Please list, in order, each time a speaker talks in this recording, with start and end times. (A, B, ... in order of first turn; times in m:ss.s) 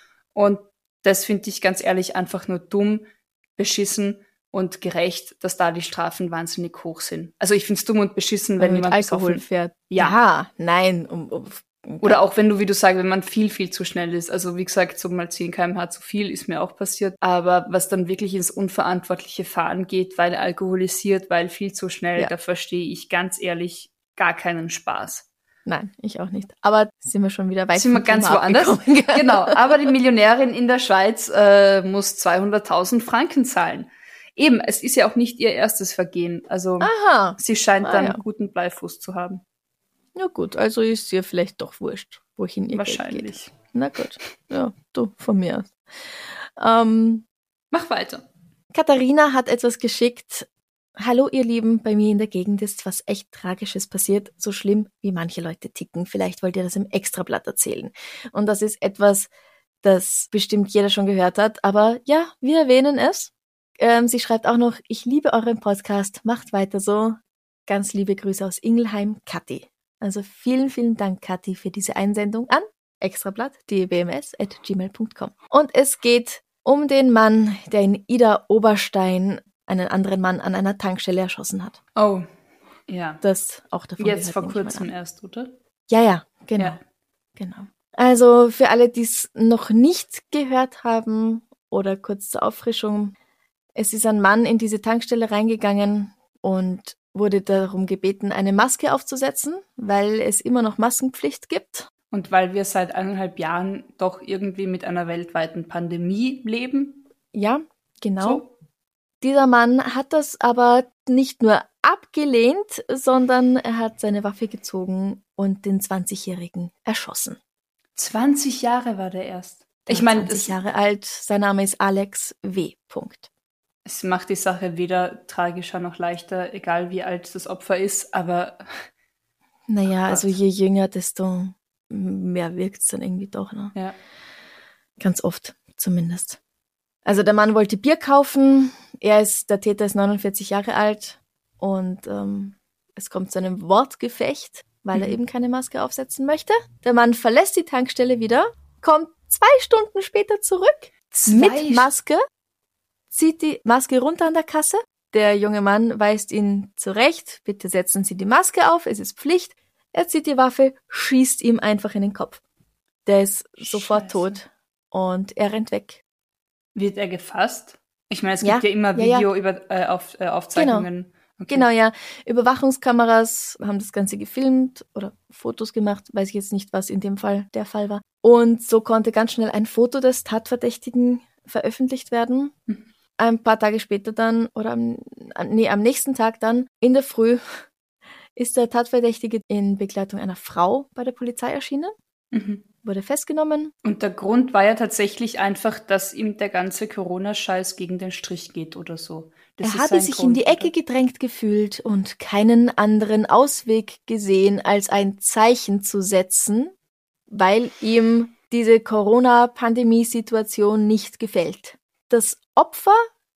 0:00.3-0:10.2 A
0:08.6-0:12.2 B
0:12.0-0:25.2 A
0:25.6-0:29.6 B
0:27.7-0:39.4 A
0:36.8-0:38.2 B
0:40.1-0:47.2 B
0:42.7-0:43.5 A
0:47.7-0:48.2 A
0:48.7-0:59.3 B
0:59.8-1:21.8 B
1:22.0-1:22.3 A
1:22.9-1:23.2 A
1:23.2-1:24.9 B
1:24.0-1:25.5 A
1:25.9-1:26.8 B
1:27.4-1:33.2 B
1:33.8-1:41.9 B
1:42.1-1:47.0 A
1:47.3-1:48.4 B
1:48.2-1:48.5 A
1:49.2-1:57.4 B
1:58.0-2:00.5 A
1:59.9-2:03.3 B
2:03.8-2:08.9 A
2:09.7-2:13.7 B
2:10.0-2:10.4 A
2:15.0-2:16.4 B
2:17.0-2:32.2 B
2:31.1-2:31.9 A
2:33.1-2:42.4 B
2:43.0-2:46.0 B
2:43.6-2:44.4 A
2:46.7-2:51.7 A
2:48.4-2:49.3 B
2:50.5-2:50.9 B
2:51.5-3:02.5 B
3:03.2-3:07.6 B
3:08.4-3:11.9 B
3:12.3-3:12.6 A
3:12.8-3:13.7 B
3:13.8-3:20.7 A
3:19.6-3:26.7 B
3:27.3-3:33.1 B